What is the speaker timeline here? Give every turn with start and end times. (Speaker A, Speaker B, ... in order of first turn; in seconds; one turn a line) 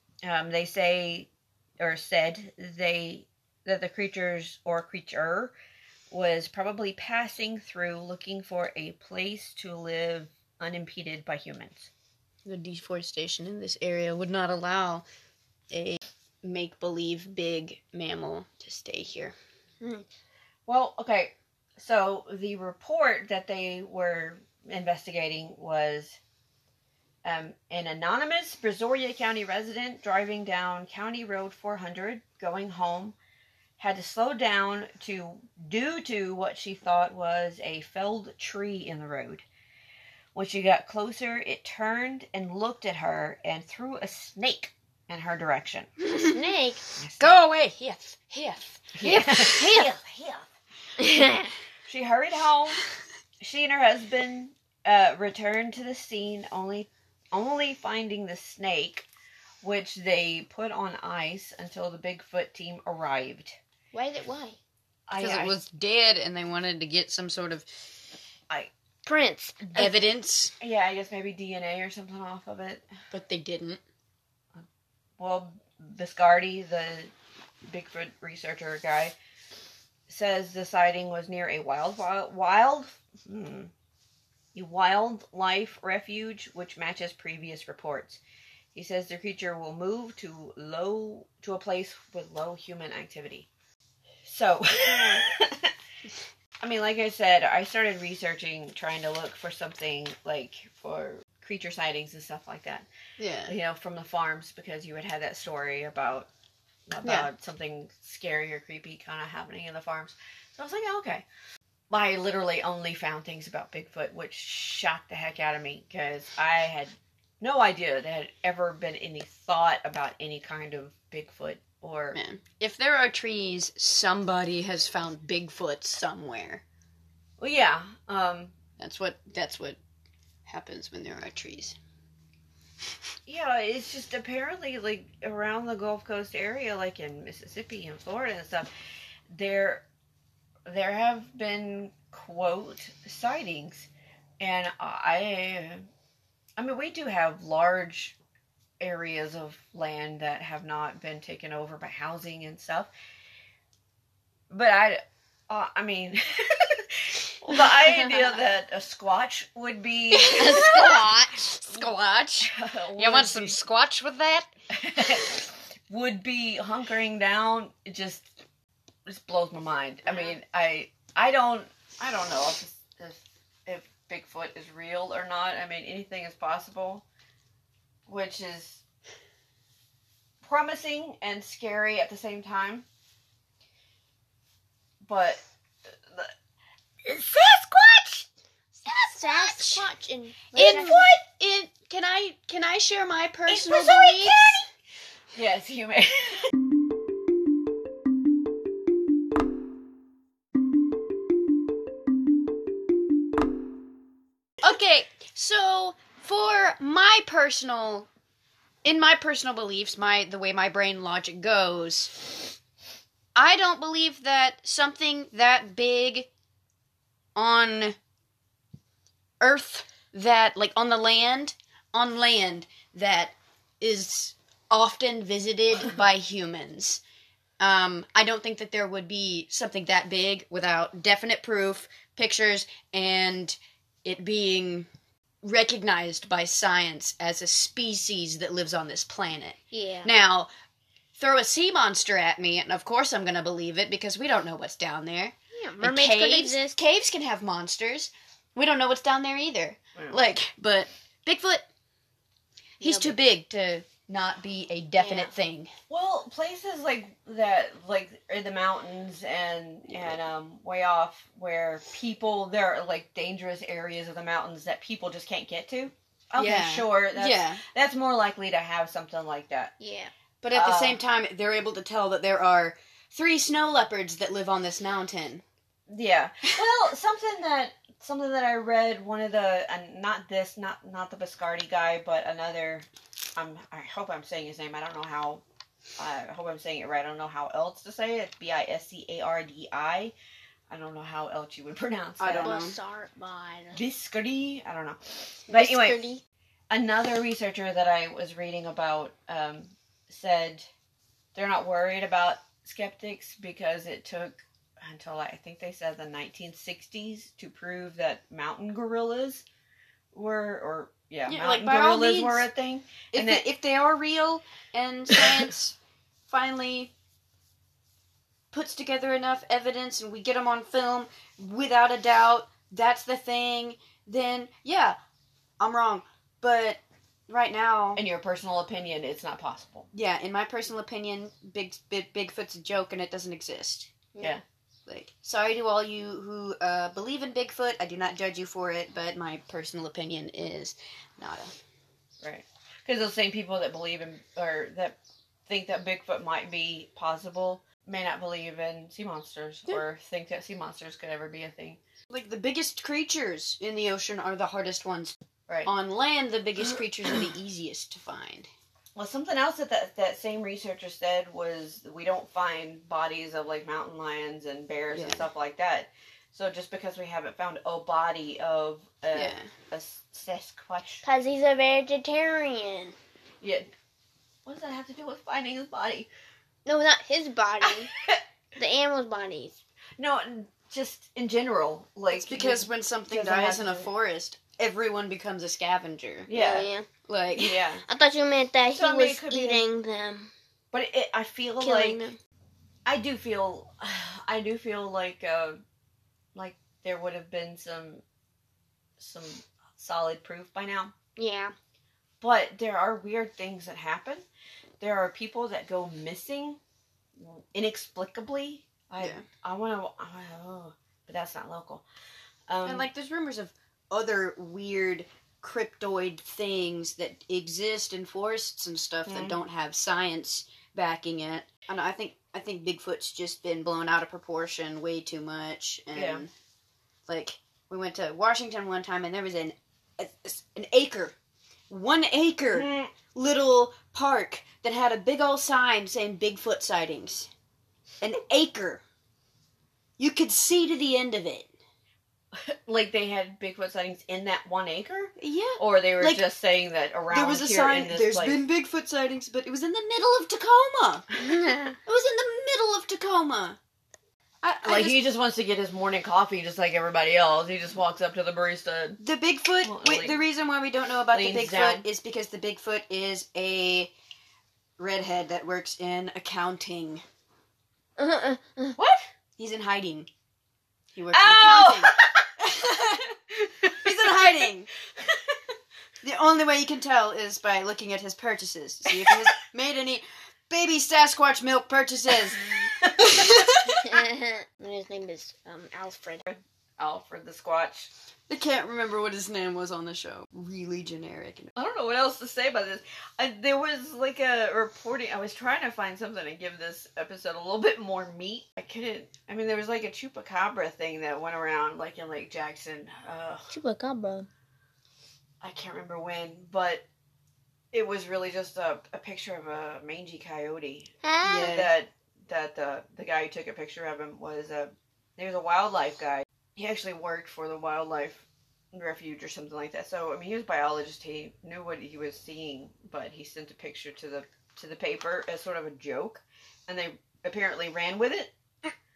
Speaker A: 0.2-5.5
Speaker A: 6.1-11.9
Speaker B: 12.4-15.1
Speaker B: 15.7-19.4
Speaker A: 20.7-26.2
Speaker A: 27.2-33.1
Speaker A: 33.8-39.4
Speaker A: 40.3-45.9
Speaker C: 46.1-46.8
Speaker A: 47.0-47.3
Speaker B: 47.2-49.5
Speaker A: 49.0-50.5
Speaker C: 49.0-49.9
Speaker C: 51.0-51.5
Speaker A: 51.9-52.8
Speaker A: 53.4-59.1
Speaker A: 59.6-63.6
Speaker C: 63.9-64.6
Speaker A: 65.1-65.5
Speaker B: 65.2-67.6
Speaker C: 69.0-69.8
Speaker B: 69.7-70.5
Speaker A: 70.6-72.9
Speaker B: 73.1-73.8
Speaker A: 75.2-77.1
Speaker A: 77.7-79.1
Speaker A: 80.1-83.7
Speaker A: 84.5-88.2
Speaker A: 88.7-93.5
Speaker A: 94.2-95.7
Speaker A: 96.6-102.9
Speaker B: 103.2-103.5
Speaker A: 103.5-106.3
Speaker A: 106.9-111.2
Speaker B: 107.0-107.3
Speaker A: 111.9-122.2
Speaker B: 122.1-126.6
Speaker A: 127.4-128.5
Speaker B: 128.8-129.8
Speaker B: 130.4-131.8
Speaker A: 133.2-138.7
Speaker A: 139.3-139.8
Speaker A: 140.7-143.9
Speaker A: 144.4-145.9
Speaker A: 146.6-148.2
Speaker A: 148.8-152.9
Speaker A: 154.5-161.0
Speaker B: 160.1-164.5
Speaker C: 160.3-161.3
Speaker A: 162.4-163.6
Speaker A: 164.7-168.3
Speaker A: 169.1-177.0
Speaker A: 178.1-178.8
Speaker A: 180.4-182.8
Speaker A: 185.0-186.3
Speaker A: 187.0-188.3
Speaker B: 188.9-189.8
Speaker C: 188.9-191.0
Speaker B: 190.5-194.6
Speaker A: 193.5-194.5
Speaker A: 195.3-196.5
Speaker B: 204.6-208.1
Speaker B: 208.8-212.1
Speaker B: 213.3-216.3
Speaker B: 217.3-218.0
Speaker B: 219.4-227.0
Speaker B: 227.6-234.9
Speaker B: 235.4-240.5
Speaker C: 239.7-240.1
Speaker B: 241.1-251.7
Speaker C: 245.5-246.8
Speaker C: 252.8-253.2
Speaker B: 252.8-255.7
Speaker C: 255.0-255.3
Speaker A: 255.9-269.7
Speaker B: 266.4-267.6
Speaker C: 269.8-270.1
Speaker B: 270.4-275.4
Speaker A: 270.5-271.0
Speaker A: 275.9-285.4
Speaker A: 286.0-290.1
Speaker A: 290.7-292.6
Speaker B: 292.2-292.8
Speaker C: 292.4-293.8
Speaker A: 293.7-296.0
Speaker C: 295.5-296.2
Speaker A: 296.7-300.7
Speaker A: 301.3-309.4
Speaker A: 310.1-313.4
Speaker B: 311.3-312.5
Speaker B: 313.1-315.8
Speaker A: 315.1-315.5
Speaker B: 316.3-316.9
Speaker B: 318.5-325.0
Speaker B: 325.6-328.0
Speaker A: 327.9-329.9
Speaker B: 329.9-333.9
Speaker C: 334.1-334.4
Speaker B: 334.9-341.5
Speaker A: 342.2-351.8
Speaker B: 352.1-358.5
Speaker A: 358.9-371.0
Speaker B: 364.9-365.2
Speaker B: 369.1-369.5
Speaker C: 371.0-372.9
Speaker A: 373.4-373.7
Speaker A: 374.4-376.1
Speaker C: 376.6-377.9
Speaker A: 377.6-378.2
Speaker C: 378.6-379.6
Speaker A: 380.0-383.9
Speaker B: 382.1-386.3
Speaker A: 386.3-386.7
Speaker C: 386.3-386.9
Speaker B: 387.1-387.6
Speaker A: 387.3-387.8
Speaker C: 387.8-390.3
Speaker A: 388.7-389.6
Speaker A: 390.7-392.0
Speaker C: 391.6-392.2
Speaker A: 392.9-395.6
Speaker A: 396.3-398.0
Speaker A: 399.0-400.9
Speaker C: 401.2-401.5
Speaker A: 402.2-404.2
Speaker A: 404.8-406.6
Speaker A: 407.2-411.9
Speaker B: 409.0-409.2
Speaker A: 412.5-412.9
Speaker B: 412.6-426.3
Speaker A: 419.1-419.4
Speaker A: 425.9-426.2
Speaker B: 427.1-431.1
Speaker B: 431.7-437.3
Speaker A: 432.5-432.9
Speaker B: 438.0-438.8
Speaker B: 440.0-441.5
Speaker A: 442.3-448.4
Speaker B: 445.2-446.2
Speaker B: 447.1-453.6
Speaker B: 454.4-455.0
Speaker A: 454.6-459.0
Speaker B: 459.0-463.9
Speaker A: 459.6-460.2
Speaker A: 461.1-461.9
Speaker B: 464.8-467.0
Speaker C: 468.0-468.7
Speaker A: 468.8-469.1
Speaker B: 469.4-470.1
Speaker B: 470.9-473.1
Speaker A: 471.1-472.3
Speaker A: 473.4-474.3
Speaker B: 473.6-474.7
Speaker B: 476.0-483.8
Speaker A: 482.5-483.4
Speaker C: 483.7-486.2
Speaker A: 486.3-487.9
Speaker B: 488.3-491.5
Speaker A: 491.6-503.5
Speaker C: 503.5-504.3
Speaker A: 505.4-506.9
Speaker A: 507.7-528.3
Speaker C: 511.0-511.5
Speaker B: 511.2-511.7